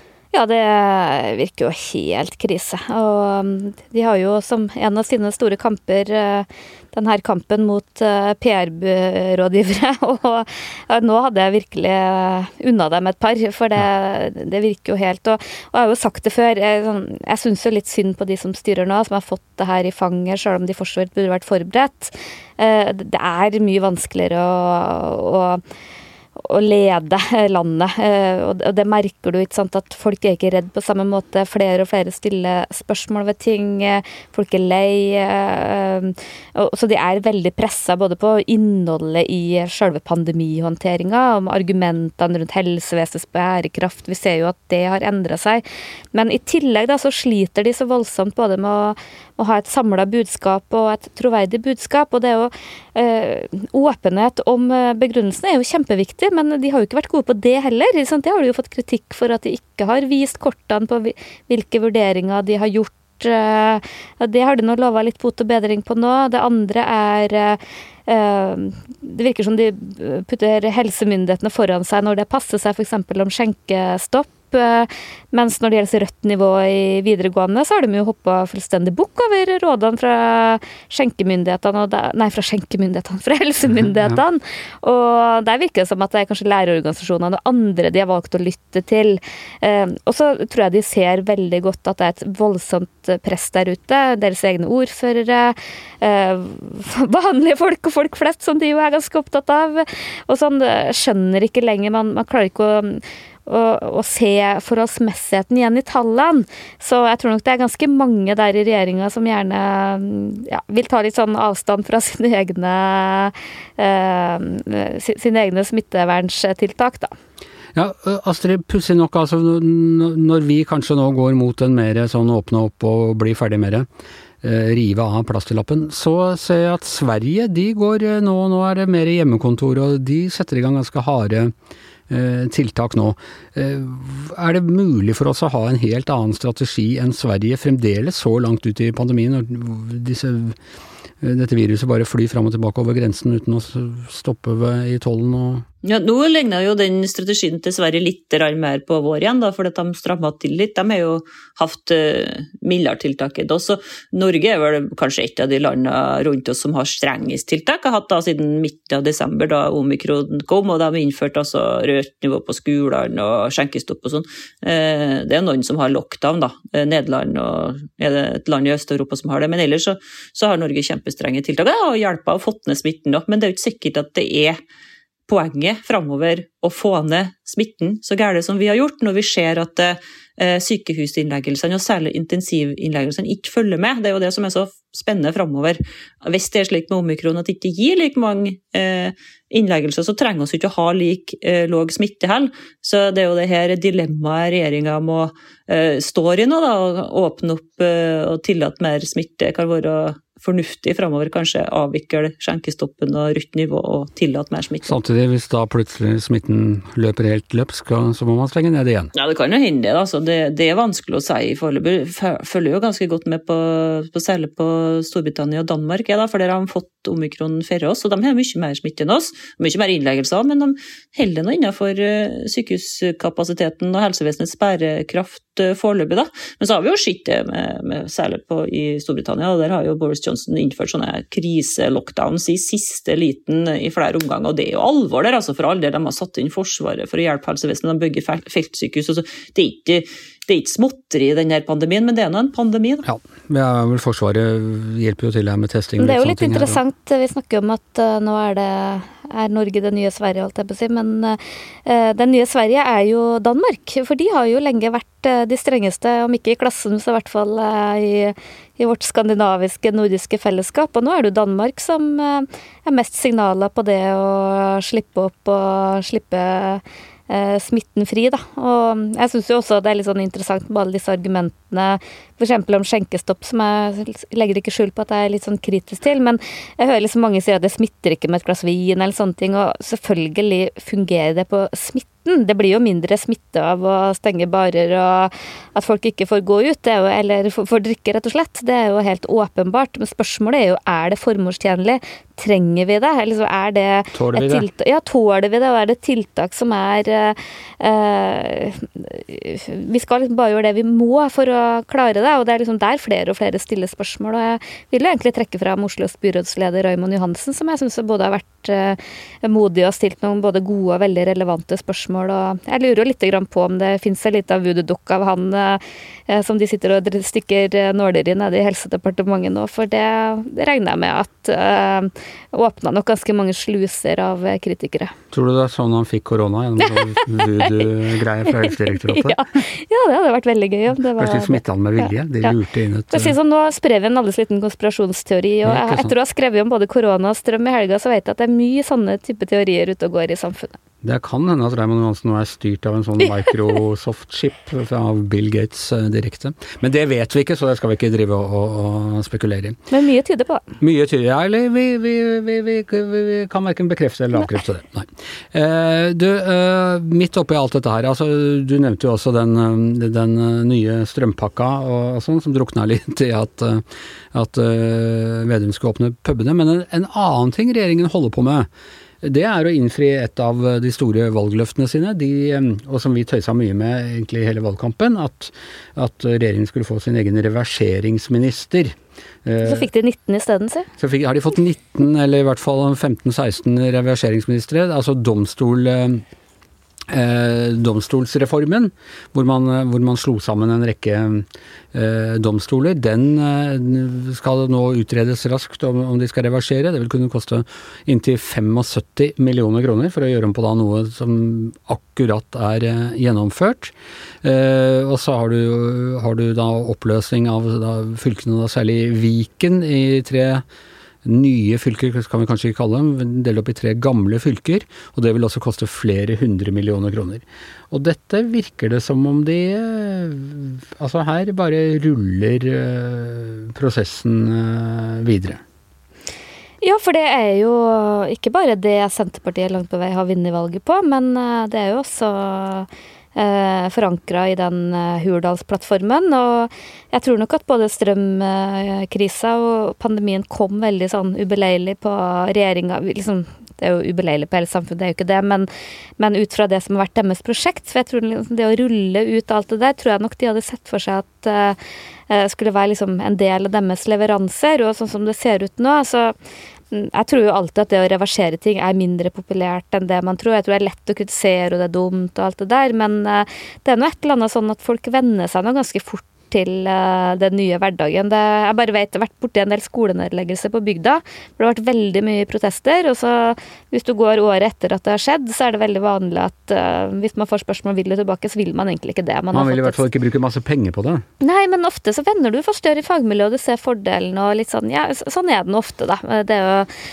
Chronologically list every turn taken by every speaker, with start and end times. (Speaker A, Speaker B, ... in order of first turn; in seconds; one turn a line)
Speaker A: 0.3-25.6
Speaker A: 26.4-117.1
Speaker B: 117.7-123.9
Speaker B: 124.4-131.5
Speaker B: 132.1-140.6
Speaker B: 141.2-145.7
Speaker C: 145.8-174.6
Speaker C: 175.3-204.9
Speaker B: 204.8-209.1
Speaker C: 209.1-243.0
Speaker B: 243.0-246.8
Speaker A: 246.0-325.1
Speaker B: 294.1-294.7
Speaker B: 325.3-329.6
Speaker A: 326.8-327.9
Speaker A: 328.4-332.6
Speaker B: 331.2-333.3
Speaker A: 333.1-340.8
Speaker B: 335.6-336.1
Speaker B: 341.0-349.8
Speaker A: 349.9-350.7
Speaker B: 350.8-368.7
Speaker B: 369.2-379.9
Speaker A: 379.6-380.9
Speaker B: 381.0-386.2
Speaker B: 387.1-410.6
Speaker B: 411.2-425.6
Speaker A: 426.8-445.7
Speaker A: 446.2-451.8
Speaker A: 452.3-456.3
Speaker A: 456.9-480.0
Speaker B: 479.5-481.2
Speaker A: 481.4-486.9